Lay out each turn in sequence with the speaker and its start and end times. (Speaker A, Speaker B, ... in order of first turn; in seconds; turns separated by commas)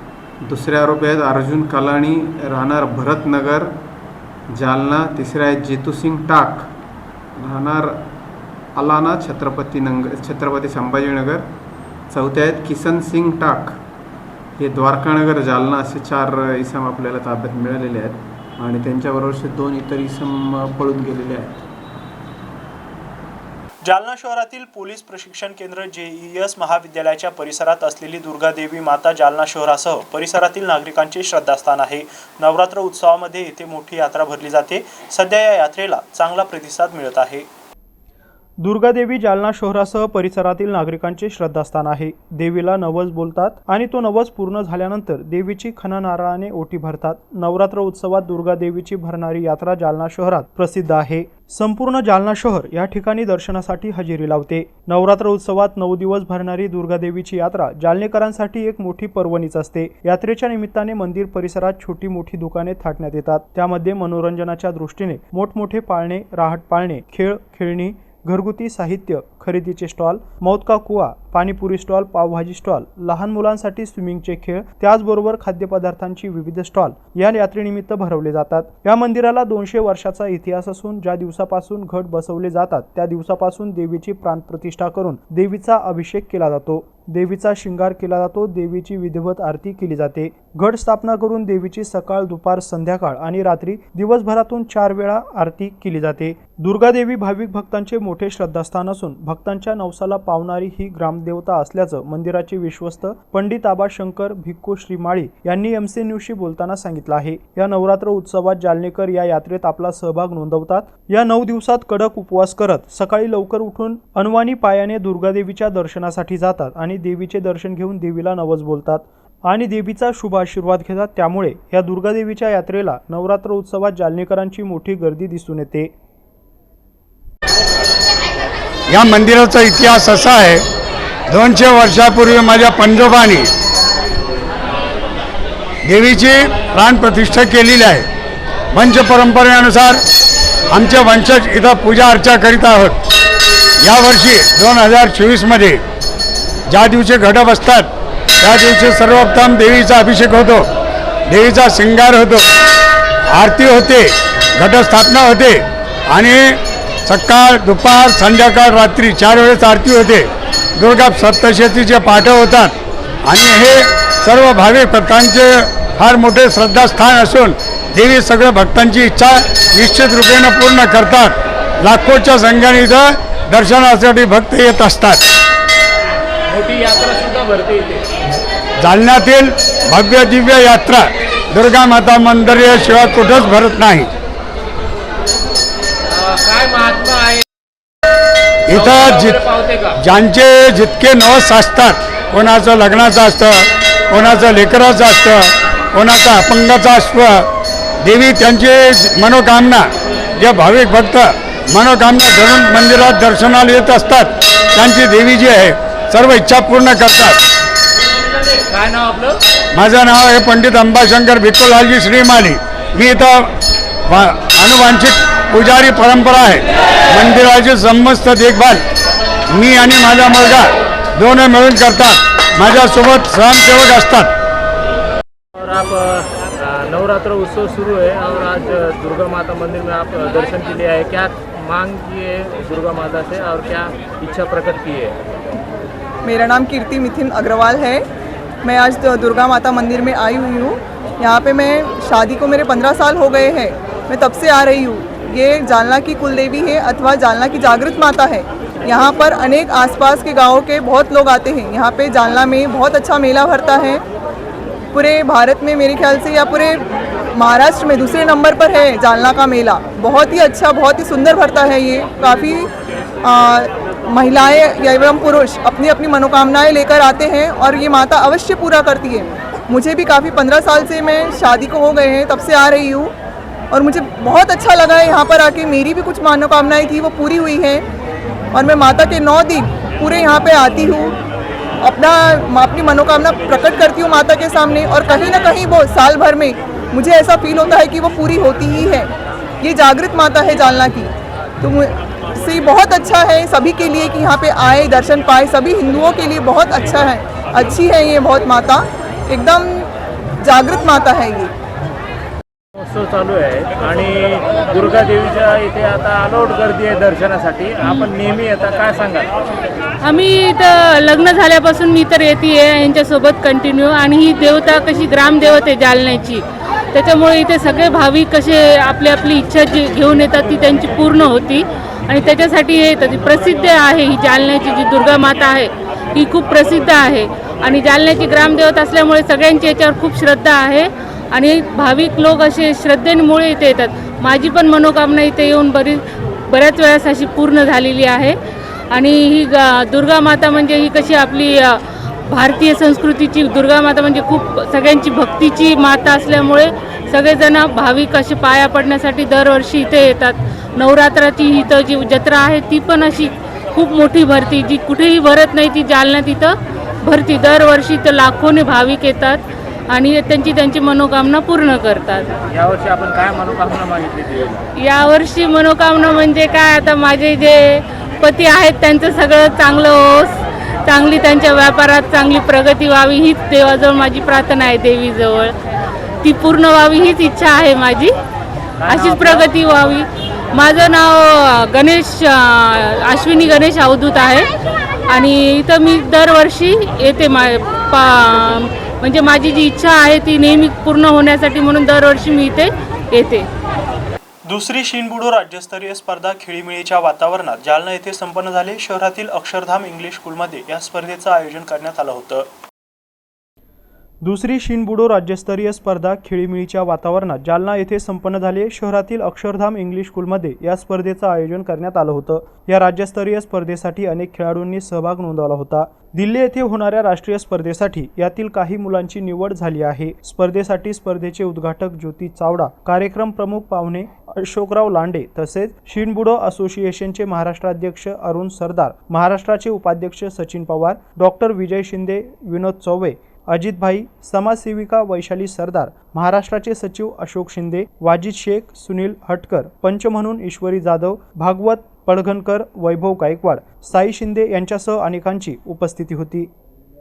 Speaker A: 0.5-3.8, Speaker A: 4.5-6.7, Speaker A: 7.4-8.1, Speaker A: 8.8-11.5, Speaker A: 12.1-13.8, Speaker A: 14.6-21.6, Speaker B: 23.8-37.5, Speaker B: 38.6-125.9, Speaker C: 128.9-130.6, Speaker C: 131.3-133.5, Speaker C: 135.8-138.1, Speaker C: 138.7-140.0, Speaker C: 140.7-143.0, Speaker C: 143.8-145.8, Speaker C: 146.7-147.9, Speaker C: 148.4-150.7, Speaker C: 151.3-152.4, Speaker C: 153.3-162.7, Speaker C: 163.3-175.3, Speaker D: 176.5-178.0, Speaker C: 178.8-184.1, Speaker D: 186.1-187.4, Speaker C: 188.7-189.4, Speaker D: 188.7-189.9, Speaker C: 190.0-197.5, Speaker C: 198.0-199.9, Speaker C: 200.4-207.4, Speaker D: 208.6-209.4, Speaker C: 209.8-213.5, Speaker C: 214.1-218.8, Speaker C: 219.5-224.3, Speaker D: 225.6-235.2, Speaker E: 236.3-238.0, Speaker E: 238.7-254.0, Speaker E: 254.9-256.8, Speaker E: 257.4-262.6, Speaker E: 263.3-273.1, Speaker E: 273.7-277.8, Speaker E: 278.6-281.1, Speaker E: 281.8-289.1, Speaker E: 289.6-291.1, Speaker E: 291.6-299.9, Speaker E: 300.4-301.5, Speaker D: 302.8-309.3, Speaker F: 307.8-308.1, Speaker F: 310.0-338.4, Speaker F: 338.9-362.4, Speaker D: 362.5-364.6, Speaker F: 364.8-375.6, Speaker F: 376.2-378.1, Speaker F: 378.9-384.5, Speaker F: 385.1-393.5, Speaker B: 394.5-402.5, Speaker B: 404.2-446.5